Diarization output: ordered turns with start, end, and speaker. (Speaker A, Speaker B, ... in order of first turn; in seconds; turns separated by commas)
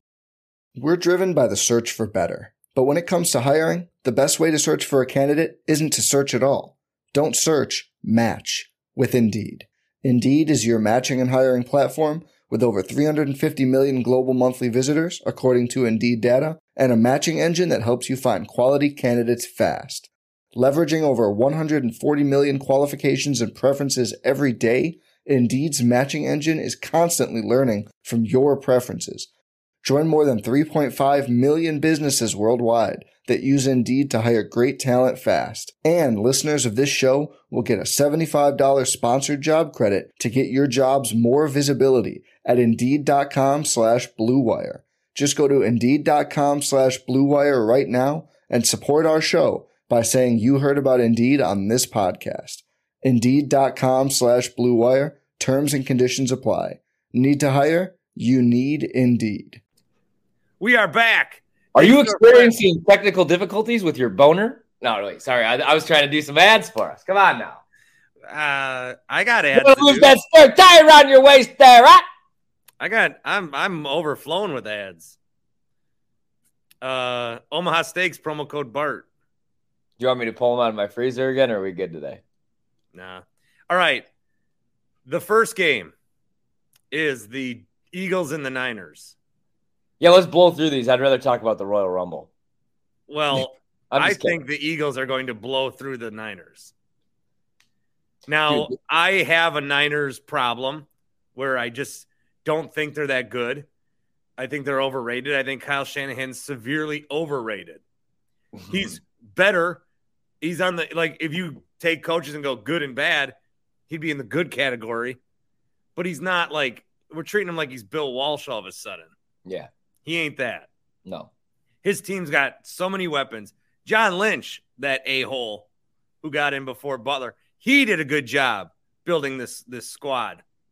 Speaker A: 0.7-29.3, Speaker A: 29.8-59.6, Speaker B: 60.6-62.5, Speaker C: 61.7-67.6, Speaker B: 68.3-70.1, Speaker C: 69.5-72.0, Speaker B: 72.8-75.2, Speaker B: 76.8-79.1, Speaker C: 80.0-82.2, Speaker B: 82.9-84.0, Speaker B: 85.0-85.9, Speaker B: 86.9-89.1, Speaker C: 90.0-92.3, Speaker B: 93.1-96.7, Speaker C: 93.3-94.4, Speaker B: 98.3-103.7, Speaker C: 98.5-98.7, Speaker B: 104.4-107.8, Speaker B: 108.7-109.8, Speaker B: 110.4-113.3, Speaker B: 113.9-115.2, Speaker B: 116.0-119.1, Speaker C: 119.4-119.7, Speaker B: 120.0-120.7, Speaker B: 121.8-125.7, Speaker B: 126.2-130.4